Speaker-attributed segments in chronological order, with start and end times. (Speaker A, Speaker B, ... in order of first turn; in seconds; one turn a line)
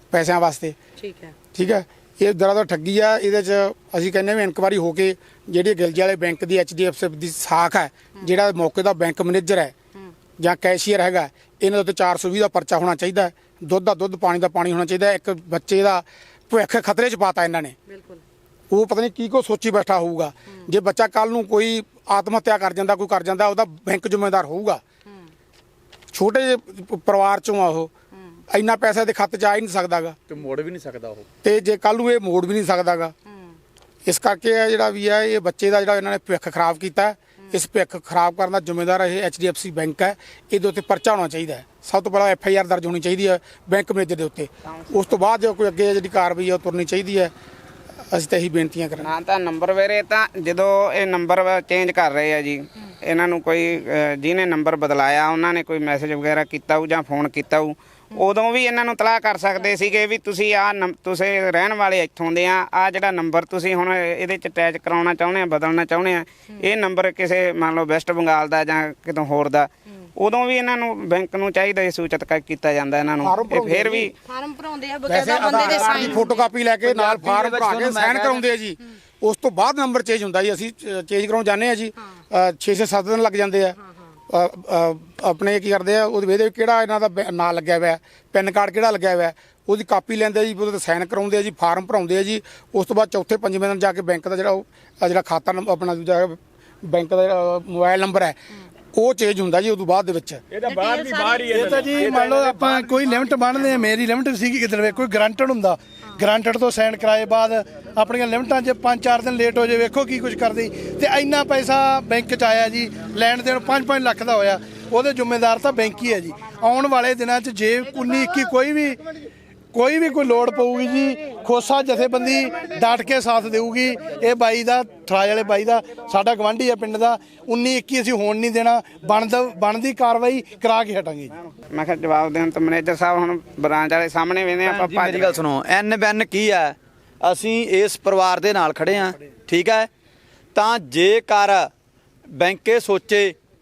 Speaker A: 0.1-0.8
Speaker B: 1.0-1.3
Speaker A: 1.5-9.7
Speaker A: 10.4-17.8
Speaker B: 17.9-18.2
Speaker A: 18.7-24.8
Speaker A: 26.1-27.9
Speaker A: 28.5-30.2
Speaker C: 30.3-31.2
Speaker A: 31.4-33.1
Speaker A: 34.1-47.3
Speaker A: 48.1-49.1
Speaker D: 49.0-74.1
Speaker A: 73.2-74.1
Speaker B: 74.2-76.5
Speaker A: 75.1-83.8
Speaker C: 75.5-76.2
Speaker C: 76.8-78.5
Speaker A: 84.3-98.4
Speaker A: 98.9-100.4
Speaker E: 100.5-103.1
Speaker B: 100.7-101.5
Speaker F: 101.5-119.0
Speaker E: 103.6-104.0
Speaker F: 119.7-131.4
Speaker D: 131.7-135.4
Speaker C: 134.6-139.9
Speaker C: 140.6-141.7
Speaker C: 142.4-143.3